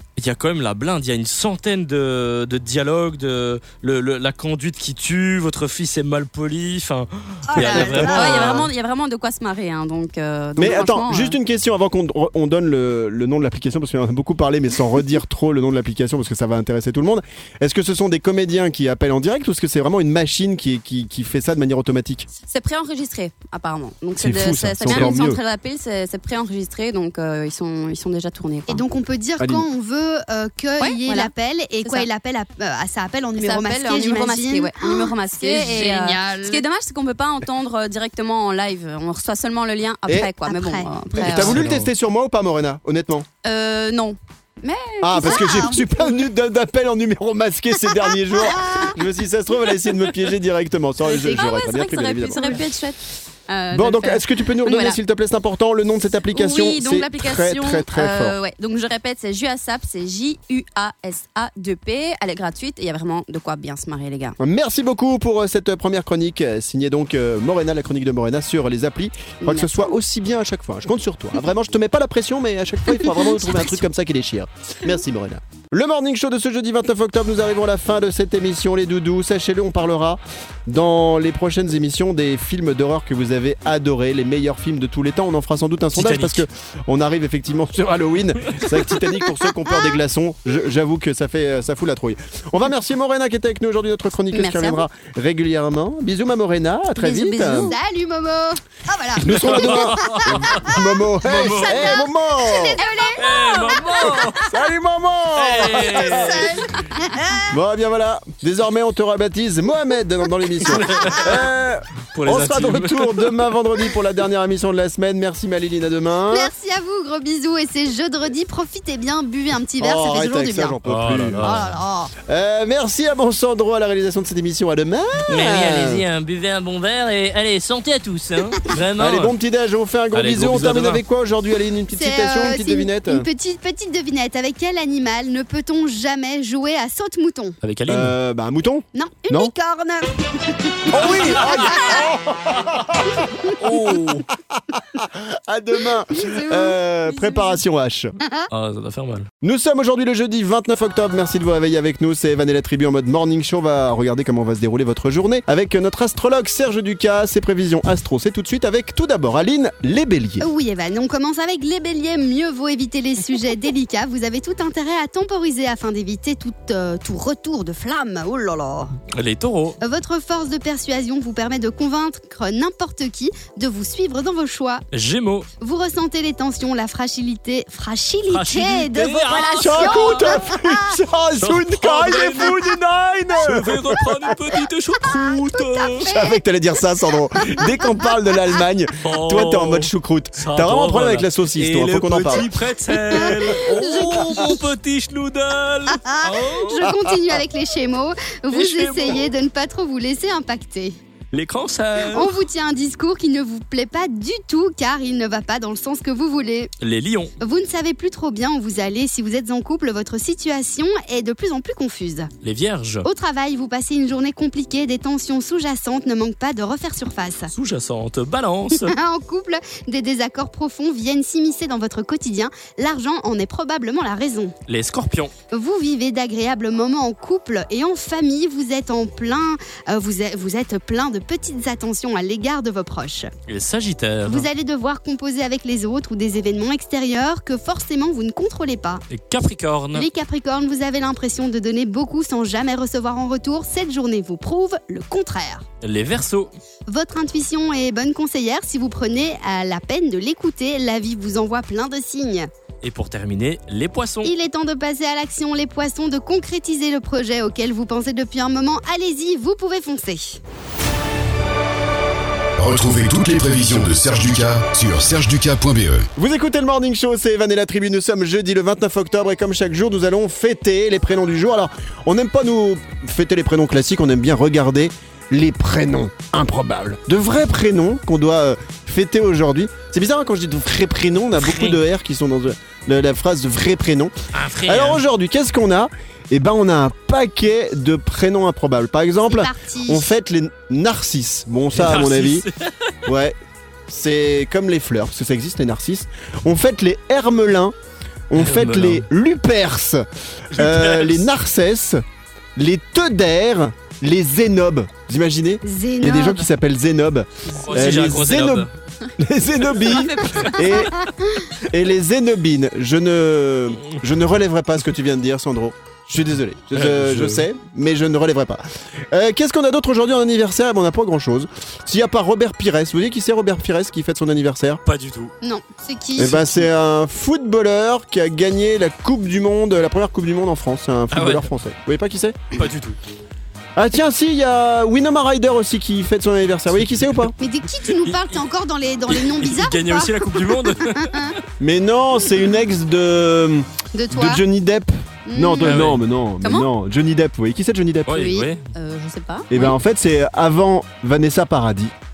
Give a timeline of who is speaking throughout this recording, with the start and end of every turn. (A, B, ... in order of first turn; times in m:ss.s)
0:00.2-0:08.7 A
0:07.5-0:08.4 B
0:07.6-0:11.4 C
0:10.6-0:22.3 D
0:22.5-0:28.8 C
0:24.2-0:25.4 D
0:28.7-0:36.6 B
0:29.4-0:29.7 D
0:30.8-0:31.3 C
0:31.8-0:32.1 C
0:33.4-0:41.6 C
0:40.4-0:41.6 B
0:41.2-0:43.3 D
0:41.5-0:41.9 A
0:43.4-0:45.8 C
0:45.0-0:52.6 D
0:45.2-0:46.0 B
0:48.4-0:49.0 B
0:51.0-0:55.0 C
0:53.7-0:58.4 D
0:56.3-1:04.4 C
1:04.4-1:37.8 D
1:09.4-1:10.0 C
1:26.0-1:26.4 A
1:34.3-1:34.8 C
1:37.0-1:37.7 C
1:37.1-1:44.5 B
1:39.2-1:42.8 D
1:39.3-1:42.0 A
1:43.2-1:44.5 A
1:44.5-1:46.6 D
1:45.4-1:46.8 A
1:45.8-1:47.5 B
1:47.5-1:56.5 D
1:50.7-1:51.4 A
1:50.8-1:51.2 B
1:52.2-1:53.4 A
1:56.3-2:00.8 B
1:59.8-2:01.5 D
2:00.9-2:01.8 A
2:01.4-2:02.1 B
2:02.3-2:06.0 D
2:05.3-2:09.3 A
2:09.0-2:13.3 D
2:10.1-2:11.0 A
2:11.9-2:17.6 B
2:17.6-2:18.1 A
2:17.9-2:19.5 D
2:19.0-2:22.1 B
2:20.9-2:23.1 D
2:21.0-2:21.9 A
2:23.2-2:23.5 B
2:23.6-2:24.2 A
2:23.6-2:24.1 D
2:24.7-2:28.1 D
2:26.2-2:27.6 B
2:28.2-2:28.5 B
2:28.5-2:29.3 A
2:29.4-2:40.5 D
2:40.4-2:49.0 B
2:49.1-2:49.8 A
2:49.8-2:54.8 B
2:54.9-2:55.5 A
2:55.6-3:01.0 B
2:58.3-3:00.3 A
2:59.6-3:04.0 D
3:01.4-3:02.6 A
3:03.4-3:06.1 A
3:05.2-3:06.4 B
3:06.1-3:12.5 D
3:07.4-3:07.7 B
3:09.0-3:16.9 A
3:13.1-3:14.5 B
3:15.9-3:21.0 B
3:18.5-3:19.3 A
3:21.3-3:22.3 A
3:22.0-3:26.7 B
3:26.8-3:27.3 A
3:27.4-3:32.3 B
3:32.4-3:33.1 A
3:33.0-3:37.5 B
3:37.5-3:39.0 A
3:38.8-3:44.6 B
3:44.7-3:45.3 A
3:45.5-3:53.3 B
3:53.5-3:54.5 A
3:54.3-3:59.0 B
3:59.1-4:00.1 A
4:00.0-4:05.6 B
4:05.8-4:06.5 A
4:06.9-4:12.5 B
4:12.8-4:14.3 A
4:14.2-4:20.4 B
4:22.6-4:26.1 E
4:26.2-4:44.1 D
4:41.4-4:41.8 A
4:44.3-4:45.0 A
4:44.7-4:52.5 D
4:49.3-4:50.1 B
4:51.7-4:52.7 A
4:53.1-4:53.4 D
4:53.9-4:57.8 D
4:58.3-5:02.0 D
4:58.4-4:59.0 A
5:00.6-5:01.2 A
5:02.6-5:24.8 D
5:05.6-5:06.5 B
5:07.5-5:08.7 A
5:09.8-5:10.6 C
5:11.0-5:11.4 B
5:16.7-5:17.4 A
5:24.8-5:25.3 A
5:25.4-5:26.7 B
5:26.2-5:32.6 D
5:31.1-5:31.5 A
5:32.5-5:33.0 A
5:33.8-5:37.3 D
5:36.7-5:37.3 A
5:37.4-5:41.4 B
5:38.0-5:38.4 A
5:39.1-5:41.3 A
5:41.6-5:48.4 D
5:43.9-5:44.4 B
5:45.3-5:45.8 B
5:45.6-5:46.0 A
5:48.1-5:48.7 A
5:48.2-5:48.5 B
5:48.7-5:49.7 C
5:49.5-5:51.9 D